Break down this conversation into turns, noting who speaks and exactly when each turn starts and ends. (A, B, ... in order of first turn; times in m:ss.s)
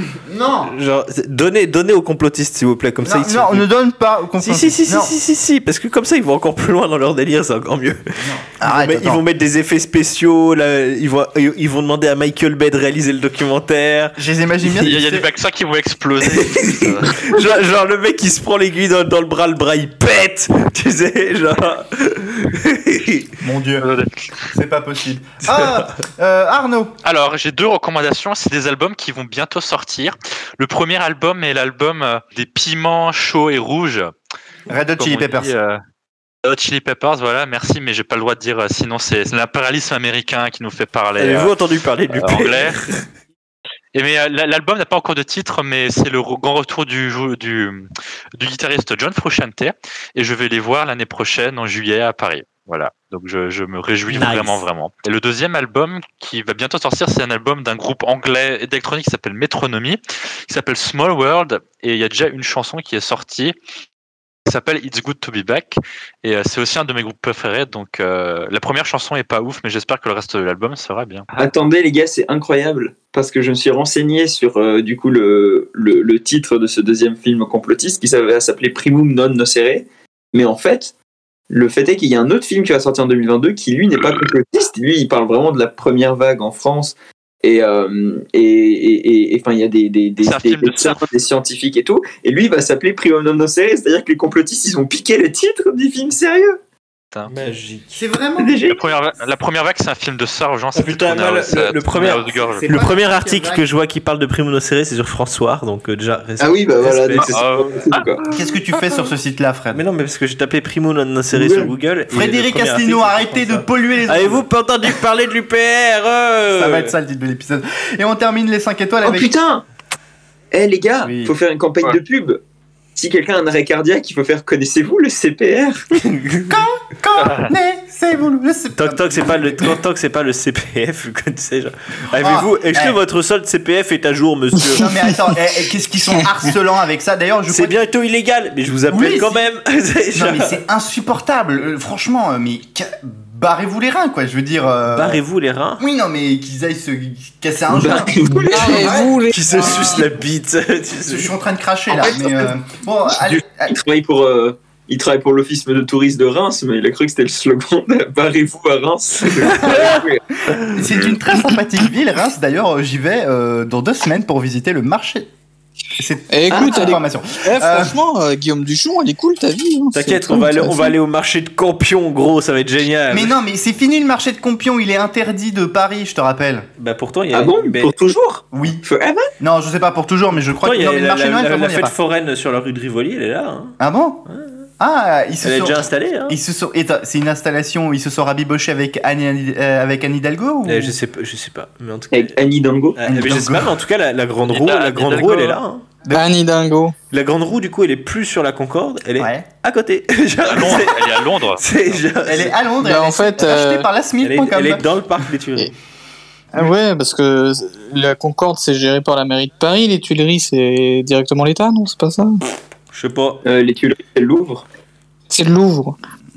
0:00.2-0:00.7 A
0:00.6-0:03.7 B
0:03.0-0:05.1 A
0:04.4-0:14.2 B
0:08.2-0:09.2 A
0:14.2-0:15.3 A
0:14.8-0:17.4 C
0:16.3-0:23.4 B
0:23.4-0:23.9 A
0:23.8-0:24.5 C
0:24.5-0:26.9 A
0:25.5-0:26.0 B
0:27.0-0:34.1 C
0:34.7-0:35.5 A
0:35.0-0:35.8 C
0:36.4-0:41.5 C
0:41.2-0:43.1 B
0:42.1-0:42.8 C
0:43.9-1:03.6 C
0:54.1-0:54.6 B
1:04.5-1:11.3 C
1:11.4-1:20.9 D
1:21.5-1:36.6 D
1:30.2-1:31.1 C
1:37.3-1:38.0 B
1:37.9-1:38.7 A
1:38.7-1:42.7 C
1:40.8-1:47.4 B
1:42.5-1:43.6 A
1:46.4-1:48.2 D
1:47.3-1:48.1 C
1:48.3-1:49.8 A
1:49.7-1:56.9 B
1:51.3-1:51.7 D
1:52.1-1:54.4 A
1:56.6-1:59.3 A
1:59.0-1:59.6 D
2:00.5-2:02.4 D
2:01.0-2:01.3 A
2:03.0-2:05.9 D
2:06.0-2:06.6 B
2:06.5-2:09.8 A
2:07.2-2:07.5 C
2:08.8-2:14.9 B
2:12.2-2:13.0 A
2:14.8-2:17.8 A
2:17.5-2:20.6 B
2:18.9-2:19.4 A
2:20.1-2:25.2 A
2:24.9-2:25.8 B
2:25.8-2:30.0 A
2:27.7-2:29.1 D
2:28.5-2:30.1 E
2:29.3-2:31.3 B
2:31.0-2:33.8 A
2:31.9-2:32.5 D
2:33.1-2:40.2 D
2:39.6-2:40.0 B
2:40.6-2:45.3 A
2:46.0-2:48.0 A
2:46.3-2:51.0 E
2:49.9-2:53.3 B
2:53.1-2:56.7 A
2:56.8-2:58.0 B
2:57.3-2:59.3 D
2:58.5-2:58.8 A
2:59.4-3:02.0 A
3:00.5-3:03.8 B
3:03.8-3:04.3 A
3:04.8-3:11.0 A
3:05.4-3:06.4 B
3:10.6-3:15.9 B
3:12.1-3:13.0 D
3:13.0-3:13.7 A
3:14.5-3:15.6 C
3:16.0-3:16.3 A
3:16.1-3:17.0 E
3:17.1-3:22.6 B
3:19.2-3:19.5 A
3:20.4-3:21.6 C
3:22.2-3:24.8 A
3:22.8-3:23.9 E
3:24.2-3:25.7 B
3:26.5-3:32.4 E
3:32.9-3:33.4 B
3:33.4-3:34.6 D
3:35.3-3:36.0 E